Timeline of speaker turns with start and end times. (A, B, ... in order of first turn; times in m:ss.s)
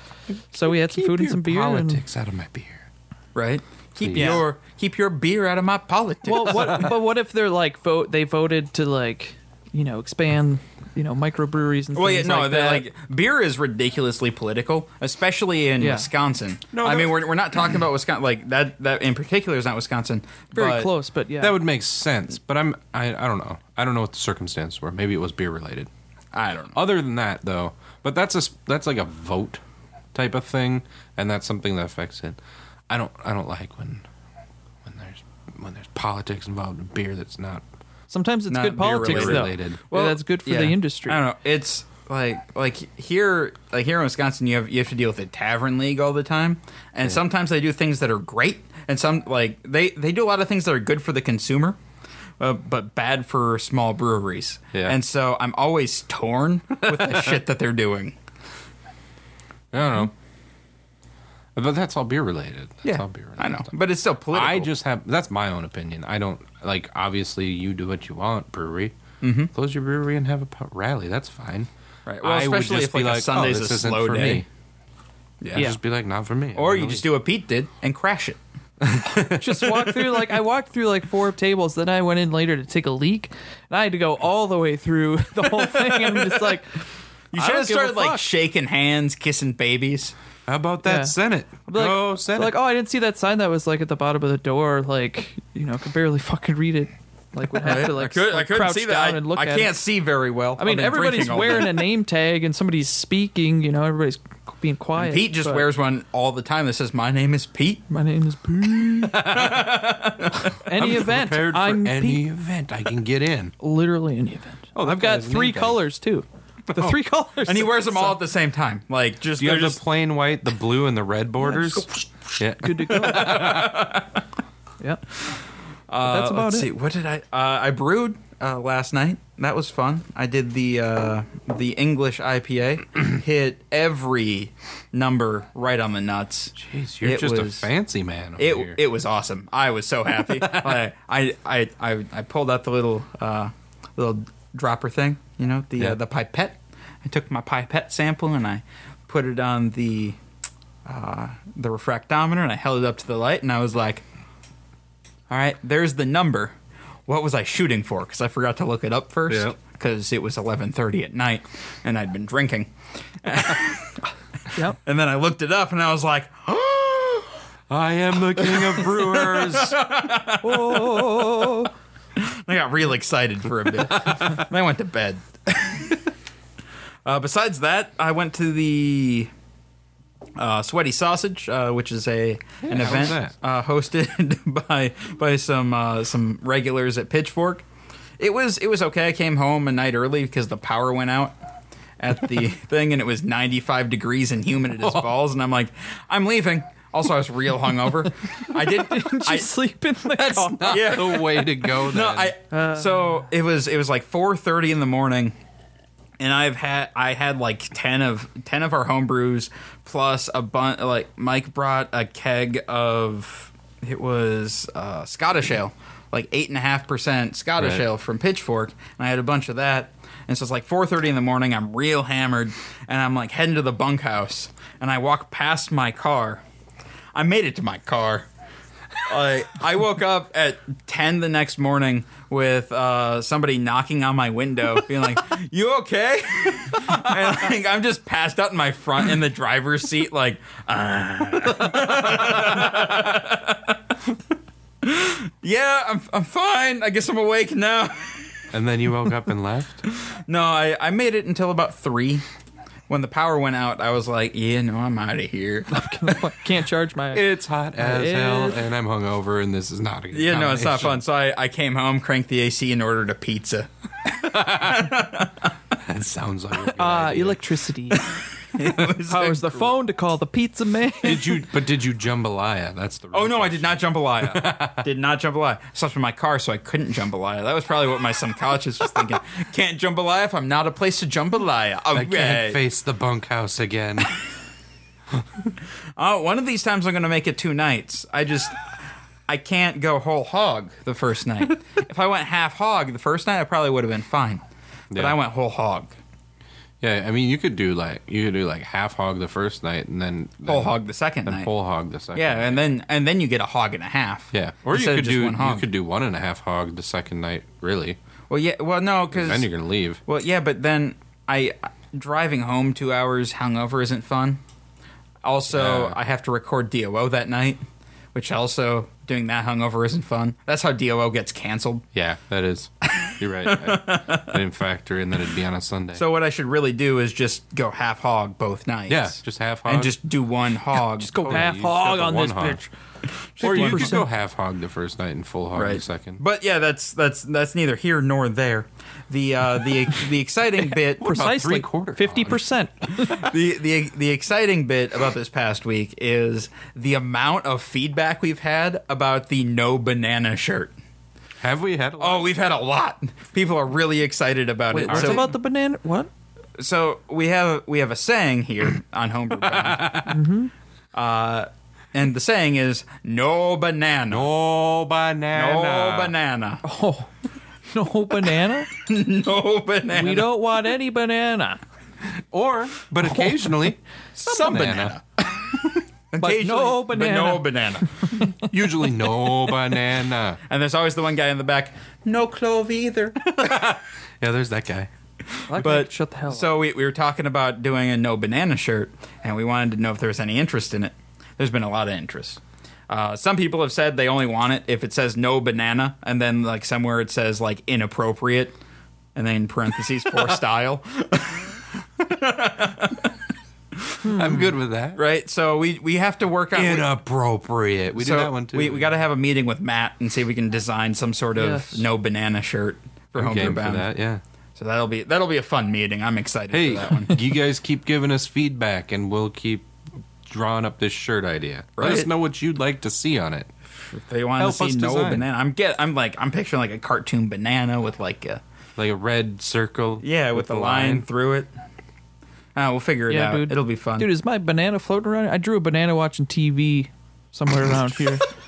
0:00.3-0:02.8 A
0:00.5-0:02.0 B
0:03.4-0:06.9 C
0:04.0-0:04.4 A
0:04.2-0:04.4 B
0:06.3-0:12.9 B
0:06.5-0:06.9 A
0:12.0-0:20.9 C
0:15.8-0:16.1 B
0:16.7-0:17.2 A
0:20.6-0:21.6 B
0:21.4-0:25.9 A
0:26.3-0:26.8 C
0:26.7-0:29.6 A
0:30.1-0:32.4 A
0:32.9-0:34.1 A
0:34.8-0:37.6 A
0:38.1-0:41.2 B
0:38.5-0:51.8 C
0:39.0-0:39.8 A
0:52.4-0:58.2 C
0:56.8-0:57.4 A
0:59.7-1:00.1 A
1:01.6-1:03.7 A
1:02.8-1:04.7 C
1:04.3-1:09.0 A
1:09.2-1:09.5 C
1:09.5-1:11.7 A
1:12.1-1:14.4 C
1:12.2-1:14.5 A
1:15.4-1:15.7 C
1:15.5-1:17.1 A
1:16.6-1:18.4 C
1:18.8-1:20.4 A
1:19.3-1:28.3 B
1:25.8-1:26.3 C
1:27.3-1:30.2 C
1:30.5-1:32.6 A
1:30.8-1:31.2 B
1:31.7-1:39.8 B
1:37.6-1:41.9 C
1:40.6-1:45.7 B
1:45.0-1:47.8 C
1:47.9-1:49.3 B
1:48.7-1:50.6 C
1:49.1-1:49.8 A
1:50.6-1:52.2 B
1:50.7-1:53.5 A
1:53.6-1:58.2 B
1:54.8-1:55.8 A
1:56.7-1:57.0 A
1:57.4-1:59.8 C
1:59.4-2:03.9 A
2:02.6-2:03.7 B
2:02.8-2:04.2 C
2:04.8-2:05.0 B
2:05.9-2:17.7 C
2:06.0-2:06.7 B
2:16.6-2:18.8 A
2:18.4-2:30.2 C
2:20.2-2:20.8 A
2:30.8-2:34.0 C
2:35.3-2:36.5 C
2:37.1-2:42.7 C
2:39.3-2:39.6 A
2:43.2-2:44.0 C
2:44.7-2:47.4 C
2:47.7-2:49.8 A
2:48.4-2:51.5 C
2:50.4-2:51.7 B
2:52.2-2:56.0 C
2:53.8-2:54.4 A
2:57.0-2:59.3 C
3:00.4-3:07.6 C
3:02.6-3:03.3 A
3:08.2-3:11.3 C
3:12.0-3:19.5 C
3:14.8-3:15.1 A
3:18.4-3:21.0 B
3:20.2-3:25.4 C
3:20.4-3:22.3 A
3:22.5-3:23.2 B
3:26.2-3:46.4 C
3:37.6-3:37.8 A
3:47.1-3:48.3 C
3:49.0-4:03.8 C
4:04.8-4:08.3 C
4:08.5-4:09.8 A
4:09.9-4:12.2 C
4:12.9-4:16.2 C
4:15.7-4:18.6 B
4:17.1-4:21.0 A
4:20.1-4:25.5 C
4:24.2-4:25.0 A
4:25.8-4:27.4 A
4:26.7-4:28.1 B
4:27.9-4:29.7 C
4:28.8-4:31.4 B
4:31.0-4:34.9 A
4:33.1-4:42.6 C
4:41.9-4:44.2 A
4:46.0-4:48.7 C
4:49.3-4:54.4 C
4:54.9-4:55.2 A
4:54.9-4:56.0 C
4:56.8-5:02.6 A
5:00.5-5:01.5 C
5:02.2-5:05.7 C
5:04.3-5:08.0 A
5:08.3-5:09.5 C
5:09.1-5:10.0 A
5:10.0-5:14.4 C
5:15.2-5:17.6 C
5:15.5-5:16.0 A
5:18.2-5:21.9 C
5:21.9-5:26.0 A
5:23.0-5:24.4 C
5:25.9-5:31.5 C
5:28.9-5:30.0 A
5:31.0-5:32.7 B
5:31.2-5:32.6 A
5:33.4-5:34.0 C
5:33.4-5:34.1 B
5:33.4-5:36.2 A
5:35.5-5:41.2 C
5:41.0-5:42.4 A
5:41.0-5:43.3 B
5:42.9-5:50.7 C
5:51.4-5:52.3 A
5:52.0-5:55.3 C
5:54.7-5:56.1 B
5:54.9-5:55.3 A
5:56.6-6:00.1 C
5:59.4-6:00.2 A
6:00.1-6:00.5 B
6:00.9-6:04.3 C
6:04.1-6:06.1 A
6:05.3-6:06.6 C
6:06.6-6:07.1 B
6:07.7-6:08.7 B
6:08.7-6:10.4 C
6:09.9-6:11.6 B
6:12.3-6:15.0 A
6:14.2-6:18.3 C
6:16.2-6:18.4 B
6:18.4-6:20.4 A
6:20.5-6:23.8 C
6:23.4-6:24.9 A
6:25.5-6:26.5 B
6:25.5-6:38.6 C
6:39.2-6:43.1 C
6:44.0-6:44.5 B
6:44.0-6:45.0 A
6:45.0-6:46.9 C
6:46.5-6:48.9 A
6:47.9-6:53.9 C
6:51.4-6:51.9 B
6:53.2-6:54.2 A
6:54.6-6:57.2 C
6:56.5-6:59.7 A
7:00.2-7:03.5 A
7:01.8-7:02.1 C
7:03.8-7:08.4 C
7:04.4-7:05.3 A
7:08.8-7:11.1 A
7:10.0-7:11.5 C
7:12.6-7:14.1 C
7:13.1-7:18.3 B